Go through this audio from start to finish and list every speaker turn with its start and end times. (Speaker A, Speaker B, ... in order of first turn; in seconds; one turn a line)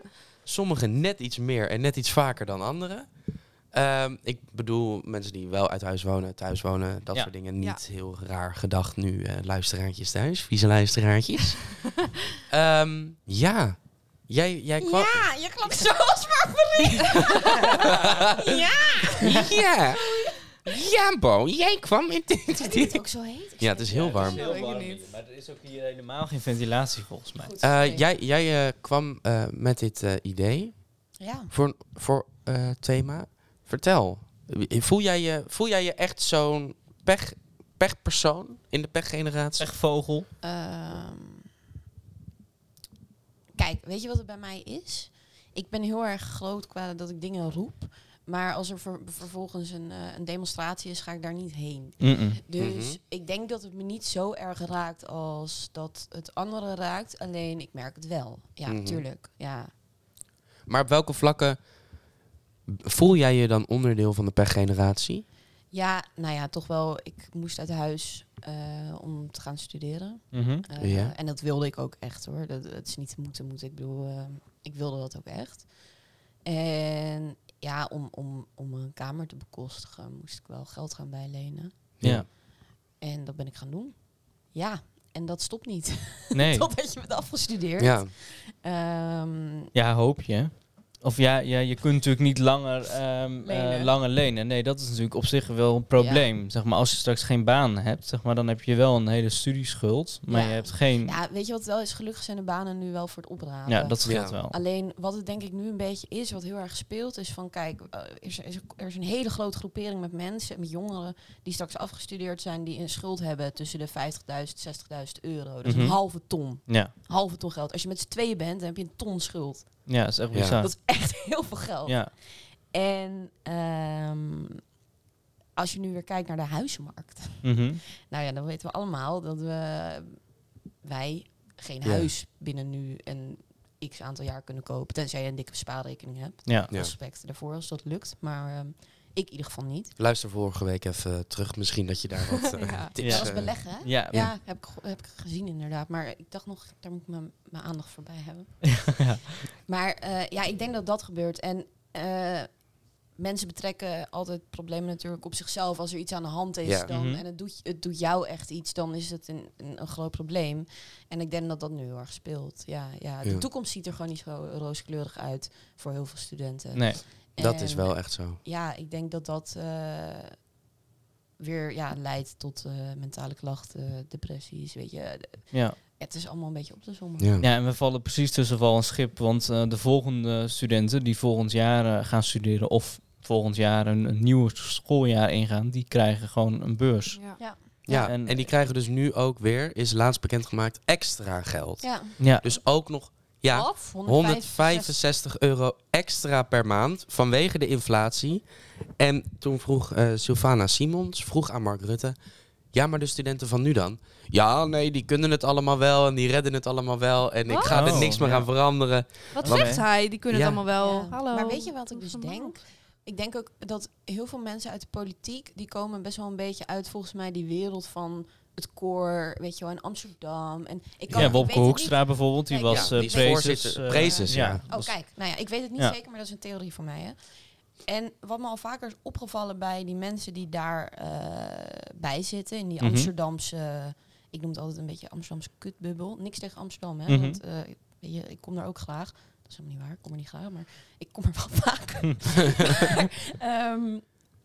Speaker A: 0.4-3.1
Speaker A: 3.7-11.9
Speaker A: 12.4-15.3
Speaker B: 14.8-19.6
Speaker A: 17.1-18.6
Speaker A: 19.1-24.5
Speaker B: 22.6-24.2
Speaker C: 23.9-27.5
Speaker D: 24.2-25.1
Speaker B: 27.4-28.1
Speaker A: 27.6-39.7
Speaker B: 31.2-31.5
Speaker C: 39.6-40.3
Speaker B: 40.4-41.5
Speaker B: 43.5-59.7
Speaker C: 52.0-52.4
Speaker A: 52.6-53.0
Speaker A: 58.6-59.0
Speaker A: 60.7-61.6
Speaker A: 62.7-65.2
Speaker B: 65.7-75.7
Speaker C: 70.3-70.7
Speaker A: 70.8-71.1
Speaker B: 76.4-81.7
Speaker A: 82.0-82.3
Speaker C: 82.0-82.3
Speaker B: 83.0-89.7
Speaker C: 86.3-86.7
Speaker A: 87.8-88.1
Speaker C: 89.7-101.1
Speaker B: 93.4-93.9
Speaker B: 95.9-96.3
Speaker B: 100.3-119.9
Speaker C: 103.7-104.5
Speaker A: 104.0-104.4
Speaker C: 115.6-116.9
Speaker C: 119.9-120.7
Speaker A: 120.3-120.7
Speaker B: 120.6-122.1
Speaker C: 121.8-122.1
Speaker B: 122.7-124.6
Speaker B: 125.5-130.2
Speaker C: 127.4-127.8
Speaker B: 130.8-139.9
Speaker A: 131.8-132.1
Speaker C: 136.4-136.7
Speaker A: 140.0-143.6
Speaker D: 142.4-142.9
Speaker B: 143.0-149.0
Speaker C: 143.0-144.3
Speaker C: 148.7-149.3
Speaker B: 149.5-152.5
Speaker B: 153.1-170.3
Speaker A: 156.6-156.9
Speaker C: 156.9-157.2
Speaker C: 166.7-167.0
Speaker A: 167.4-168.4
Speaker B: 171.4-177.3
Speaker C: 175.5-175.8
Speaker A: 177.2-177.5
Speaker C: 177.4-188.5
Speaker D: 187.1-187.4
Speaker B: 187.4-188.1
Speaker A: 187.8-198.4
Speaker B: 191.8-192.1
Speaker C: 192.2-192.5
Speaker D: 193.5-194.0
Speaker B: 193.8-195.0
Speaker A: 199.0-202.2
Speaker A: 202.7-209.7
Speaker D: 207.5-208.1
Speaker C: 207.7-208.5
Speaker D: 209.3-212.6
Speaker C: 209.4-209.8
Speaker A: 210.3-210.6
Speaker B: 210.7-223.6
Speaker A: 221.1-221.4
Speaker C: 221.2-224.9
Speaker A: 222.7-224.6
Speaker B: 224.4-227.2
Speaker B: 227.8-244.1
Speaker C: 232.8-233.1
Speaker C: 237.1-237.4